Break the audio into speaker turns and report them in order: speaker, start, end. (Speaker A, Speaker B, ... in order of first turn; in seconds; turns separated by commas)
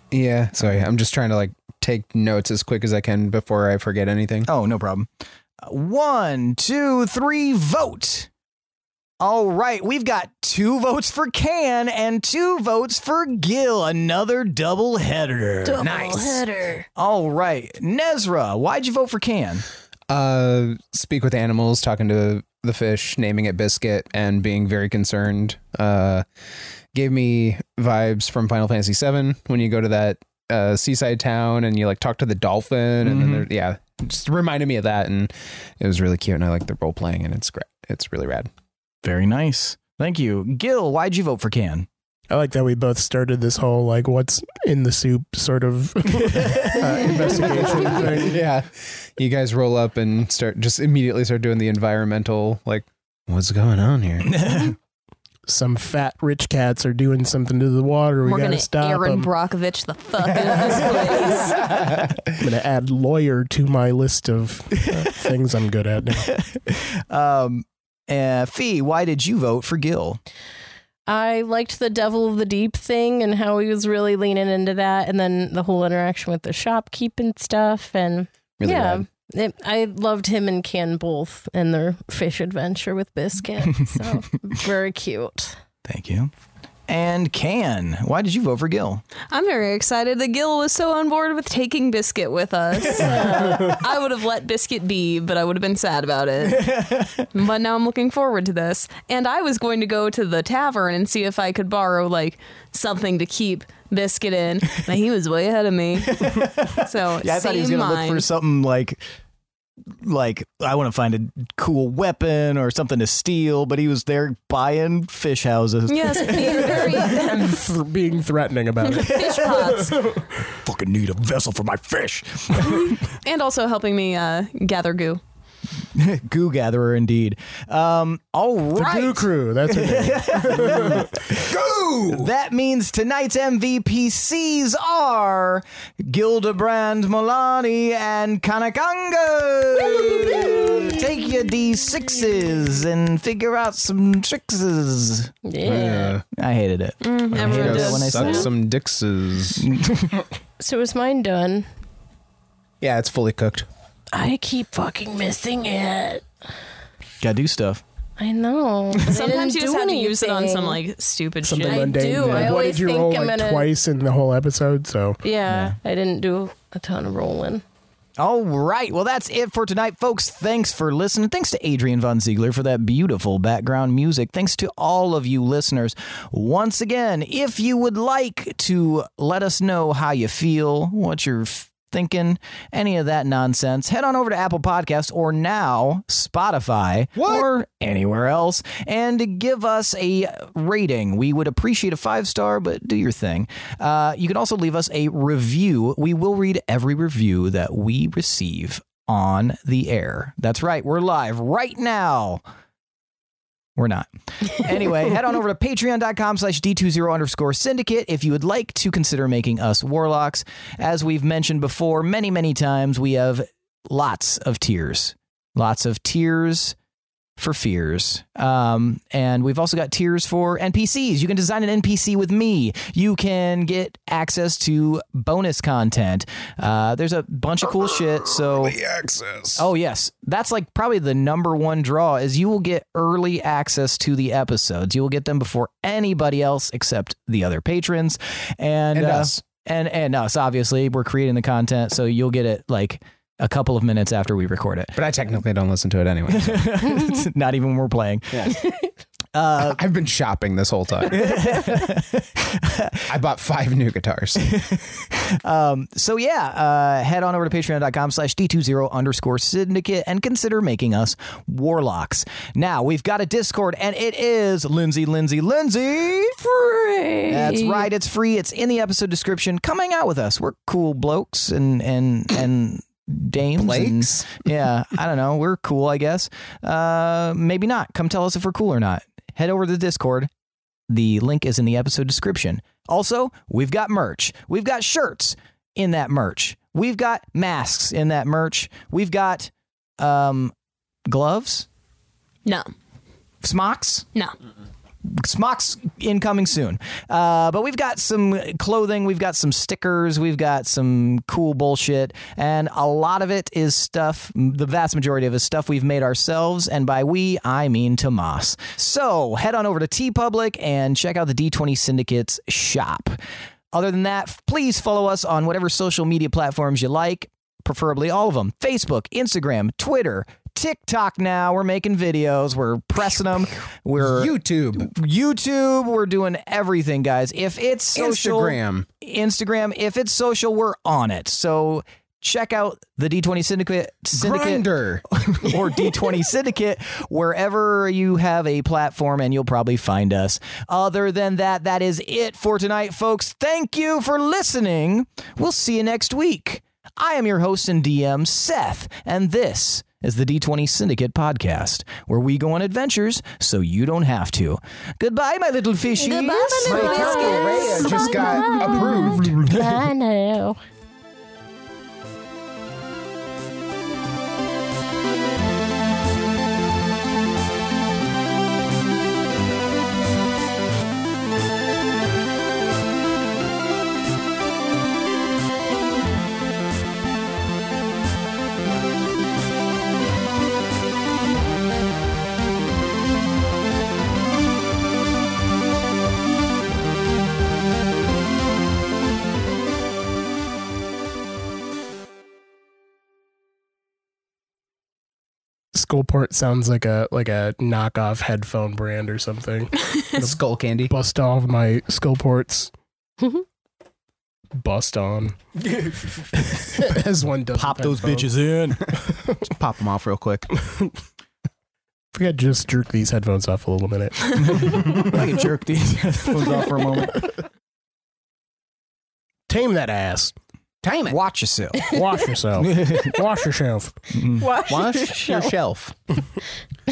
Speaker A: 0.1-4.5, Speaker B: 4.5-5.1, Speaker B: 5.6-8.3, Speaker B: 9.2-16.1, Speaker C: 15.6-16.9, Speaker A: 15.8-16.4, Speaker B: 16.9-19.6, Speaker A: 20.1-26.2, Speaker A: 26.9-38.5, Speaker B: 33.0-33.5, Speaker B: 39.0-41.9, Speaker D: 42.3-48.4, Speaker B: 46.2-47.4, Speaker A: 47.7-54.5, Speaker B: 54.3-54.8, Speaker D: 55.5-59.3, Speaker E: 58.2-61.7, Speaker A: 60.4-61.0, Speaker A: 61.6-62.2, Speaker D: 62.4-66.3, Speaker B: 64.8-65.2, Speaker B: 66.2-70.2, Speaker F: 71.1-85.5, Speaker A: 78.6-79.0, Speaker B: 85.8-86.3, Speaker B: 86.9-89.0, Speaker E: 89.2-96.7, Speaker F: 93.0-93.7, Speaker B: 96.4-97.3, Speaker E: 97.3-108.2, Speaker B: 106.0-109.0, Speaker B: 110.0-116.9, Speaker E: 115.9-117.5, Speaker D: 116.5-120.5, Speaker E: 118.8-119.9, Speaker B: 118.9-119.7, Speaker B: 120.5-123.1, Speaker E: 122.6-125.2, Speaker B: 125.9-131.5, Speaker D: 128.7-131.1, Speaker A: 131.4-132.3, Speaker B: 132.1-145.3, Speaker F: 145.4-146.2, Speaker A: 145.6-146.2, Speaker B: 146.3-148.6, Speaker E: 147.0-148.5, Speaker A: 147.4-149.7, Speaker B: 149.6-150.1, Speaker F: 150.6-151.7, Speaker A: 152.8-153.7, Speaker F: 154.1-156.2, Speaker B: 157.2-157.8, Speaker F: 158.2-160.8, Speaker E: 159.0-162.5, Speaker D: 161.4-165.2, Speaker F: 161.6-163.7, Speaker F: 165.2-167.6, Speaker B: 165.5-165.8, Speaker B: 168.2-202.4, Speaker A: 187.2-187.4, Speaker B: 203.8-216.7, Speaker B: 217.4-228.8, Speaker A: 227.7-229.7, Speaker B: 229.6-244.9, Speaker A: 238.9-239.4, Speaker A: 244.9-246.9, Speaker B: 246.3-248.6, Speaker A: 248.3-248.6, Speaker B: 249.3-249.8, Speaker A: 249.6-251.8, Speaker B: 251.1-253.1, Speaker A: 253.1-254.4, Speaker B: 254.4-266.4, Speaker F: 266.4-267.9, Speaker B: 267.3-280.3, Speaker A: 273.6-274.3, Speaker B: 280.9-290.5, Speaker B: 291.1-291.7, Speaker E: 292.4-292.7, Speaker B: 293.4-294.1, Speaker B: 295.0-313.2, Speaker B: 313.7-357.1, Speaker A: 324.0-324.9, Speaker A: 327.9-328.9, Speaker A: 334.1-335.0, Speaker C: 356.1-358.4, Speaker F: 356.1-360.6, Speaker A: 356.6-359.5, Speaker B: 359.4-359.8, Speaker D: 395.7-402.7, Speaker A: 400.1-400.9, Speaker D: 404.6-405.4, Speaker D: 406.6-408.3, Speaker B: 407.5-408.9, Speaker A: 409.5-410.5, Speaker D: 410.6-410.9, Speaker D: 412.1-415.2, Speaker B: 414.4-417.3, Speaker D: 419.5-420.3, Speaker A: 420.8-421.2, Speaker B: 421.1-421.8, Speaker D: 421.9-424.0, Speaker B: 422.6-423.2, Speaker B: 424.1-424.6, Speaker F: 424.4-425.5, Speaker A: 424.5-425.9